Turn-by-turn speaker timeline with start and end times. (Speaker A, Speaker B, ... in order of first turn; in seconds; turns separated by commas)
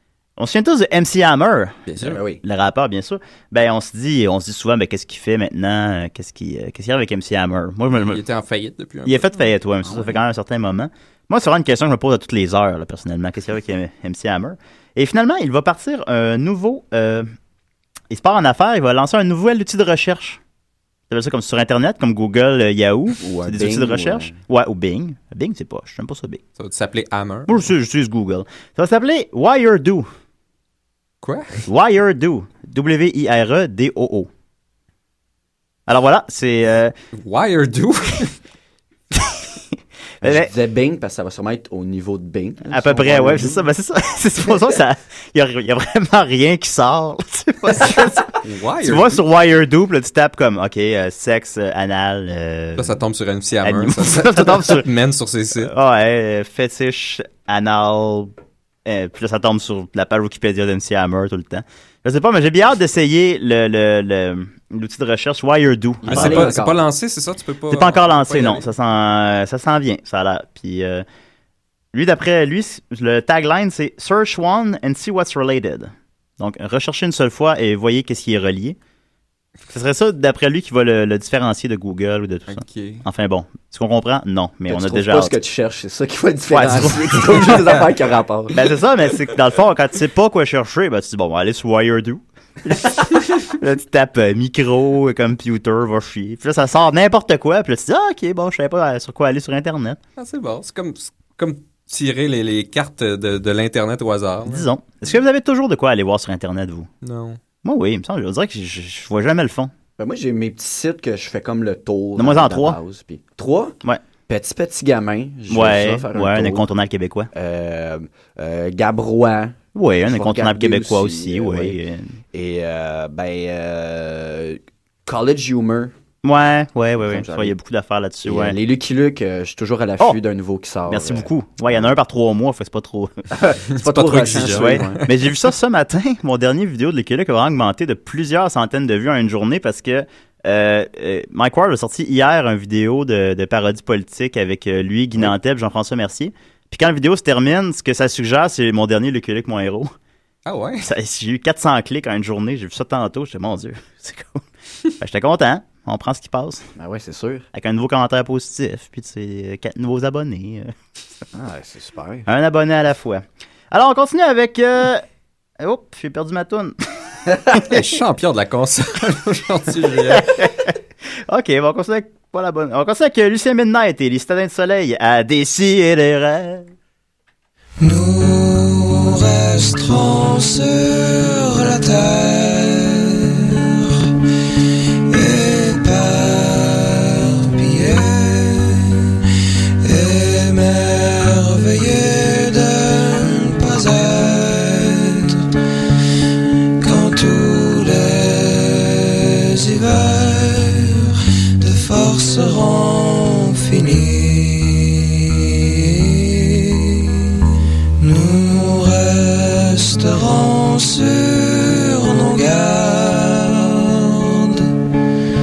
Speaker A: 0.4-8.2, Speaker B: 1.9-2.4, Speaker C: 7.9-9.5, Speaker A: 9.1-17.3, Speaker B: 9.9-10.1, Speaker A: 18.1-20.4, Speaker A: 21.1-26.4, Speaker B: 23.2-24.4, Speaker C: 26.6-27.7, Speaker A: 27.5-30.1, Speaker C: 31.2-31.7, Speaker A: 31.7-34.3, Speaker A: 35.9-36.9, Speaker C: 37.1-38.3, Speaker A: 40.2-40.5, Speaker B: 40.2-43.6, Speaker A: 42.7-53.0, Speaker C: 48.4-49.2, Speaker C: 52.8-55.7, Speaker A: 53.6-54.9, Speaker A: 55.6-58.3, Speaker A: 58.9-66.5, Speaker B: 66.0-66.8, Speaker C: 66.1-68.7, Speaker A: 67.7-71.0, Speaker A: 71.9-78.8, Speaker A: 79.7-85.3, Speaker C: 82.5-83.0, Speaker B: 84.7-88.5, Speaker A: 86.5-87.6, Speaker A: 88.5-100.0, Speaker C: 100.2-104.7, Speaker A: 104.5-106.9, Speaker C: 107.0-107.4, Speaker A: 107.6-109.7, Speaker B: 110.0-116.7, Speaker A: 112.2-112.8, Speaker A: 115.5-117.3, Speaker B: 117.3-121.8, Speaker A: 119.7-122.2, Speaker B: 122.3-125.9, Speaker A: 126.2-128.6, Speaker B: 127.0-127.5, Speaker B: 128.2-131.3, Speaker A: 130.9-133.1, Speaker B: 133.3-135.1, Speaker C: 133.7-135.1, Speaker A: 134.4-149.9, Speaker C: 150.4-150.8, Speaker A: 150.8-154.4, Speaker A: 155.0-156.7, Speaker B: 156.8-157.4, Speaker A: 157.5-160.7, Speaker B: 161.3-162.3, Speaker A: 162.2-165.0, Speaker A: 165.6-166.8, Speaker C: 167.5-170.5, Speaker A: 170.1-170.7, Speaker A: 171.3-176.7, Speaker D: 177.8-184.1, Speaker D: 185.1-189.2, Speaker D: 189.8-195.5, Speaker D: 196.8-207.3, Speaker D: 208.0-214.8